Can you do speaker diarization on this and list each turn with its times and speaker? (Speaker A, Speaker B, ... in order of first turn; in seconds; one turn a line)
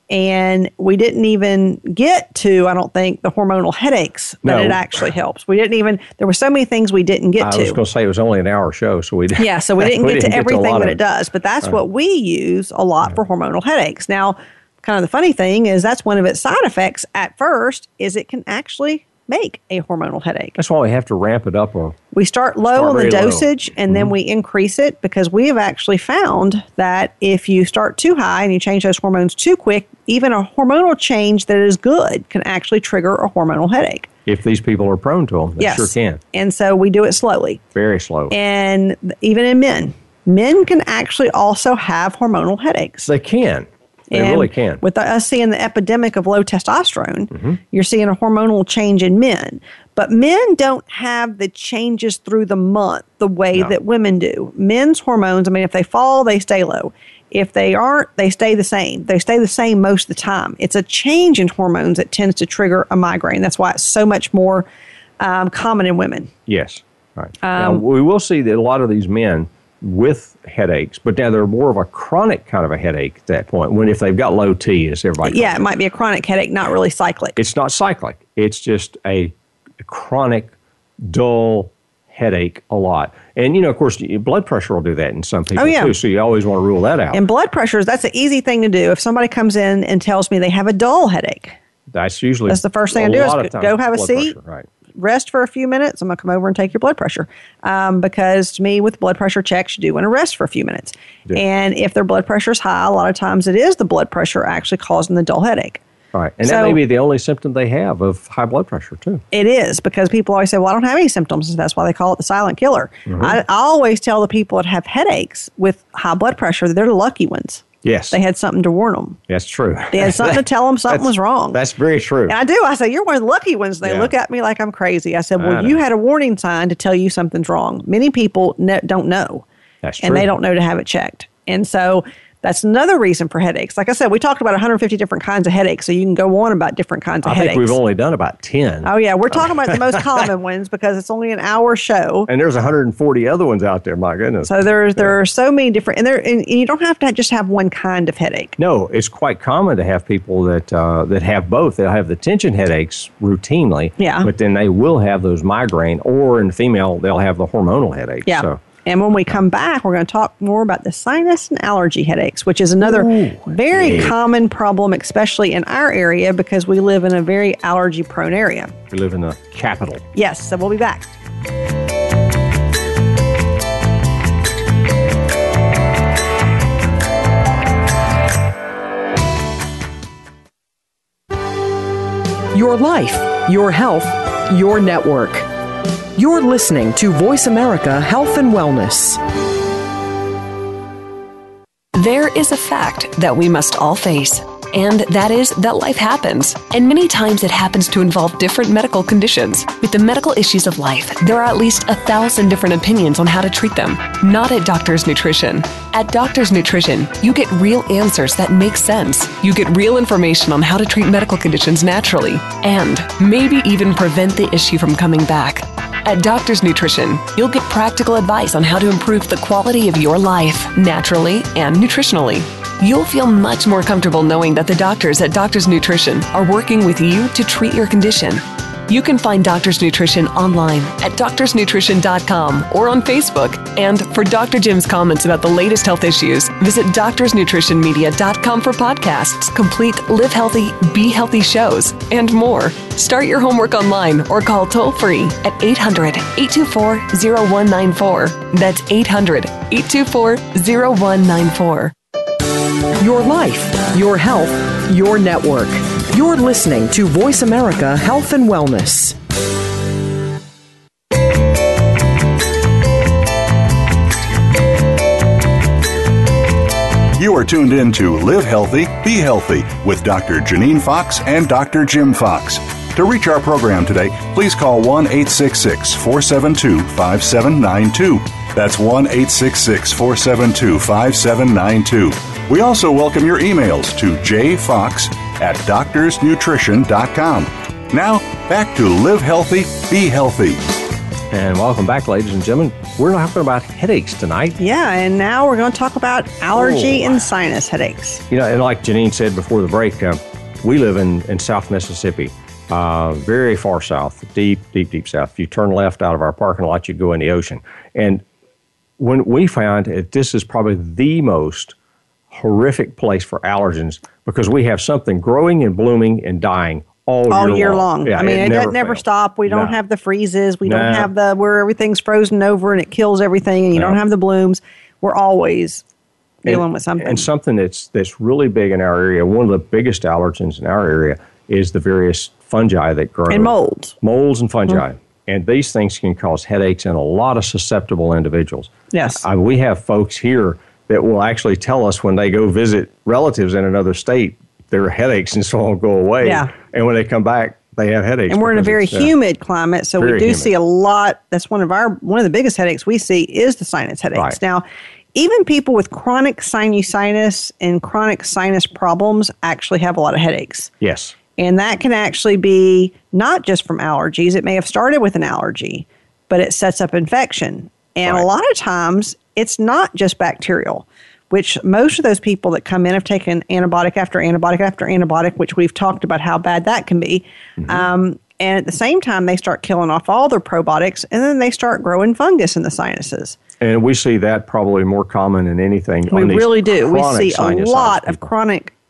Speaker A: 0.1-7.8
Speaker B: 4.4-5.0
Speaker B: 7.4-11.0
Speaker A: 9.4-20.6
Speaker B: 20.6-22.0
Speaker A: 22.1-34.1
Speaker B: 22.6-24.1
Speaker B: 34.3-36.2
Speaker A: 35.6-37.6
Speaker B: 37.7-38.4
Speaker A: 38.3-43.1
Speaker B: 43.0-44.8
Speaker A: 44.1-64.7
Speaker B: 47.3-47.6
Speaker A: 65.2-66.3
Speaker B: 66.5-75.7
Speaker A: 67.4-67.8
Speaker A: 75.2-77.4
Speaker B: 77.4-87.2
Speaker A: 85.6-86.0
Speaker A: 87.1-91.6
Speaker B: 91.9-94.7
Speaker A: 92.5-94.4
Speaker A: 95.0-105.8
Speaker B: 106.1-109.2
Speaker A: 106.4-106.8
Speaker A: 109.3-119.2
Speaker B: 113.1-113.4
Speaker B: 117.8-118.2
Speaker B: 119.3-122.4
Speaker A: 119.9-121.6
Speaker A: 122.3-129.4
Speaker B: 123.8-124.1
Speaker B: 125.4-125.8
Speaker B: 129.8-130.3
Speaker A: 130.0-137.8
Speaker B: 137.2-140.2
Speaker A: 138.8-142.3
Speaker B: 142.3-145.2
Speaker A: 144.4-148.6
Speaker B: 148.6-158.6
Speaker A: 154.0-154.3
Speaker A: 158.3-168.8
Speaker B: 162.8-164.1
Speaker B: 168.9-170.1
Speaker A: 170.2-171.1
Speaker C: 182.5-185.5
Speaker C: 186.2-189.2
Speaker D: 191.9-251.9
Speaker C: 253.0-259.2
Speaker E: 267.2-290.8
Speaker B: 291.3-294.6
Speaker A: 294.6-298.2
Speaker B: 296.6-297.2
Speaker B: 298.3-308.2
Speaker B: 309.0-311.8
Speaker B: 312.3-319.8
Speaker A: 317.3-325.8
Speaker B: 320.6-321.1
Speaker A: 326.4-327.3
Speaker B: 326.4-349.1
Speaker A: 333.3-334.0
Speaker A: 338.9-339.2
Speaker A: 346.2-346.5
Speaker A: 348.3-360.7
Speaker B: 350.0-350.5
Speaker B: 360.8-361.2
Speaker A: 361.4-383.4
Speaker B: 377.6-377.9
Speaker B: 383.6-388.3
Speaker A: 386.1-388.7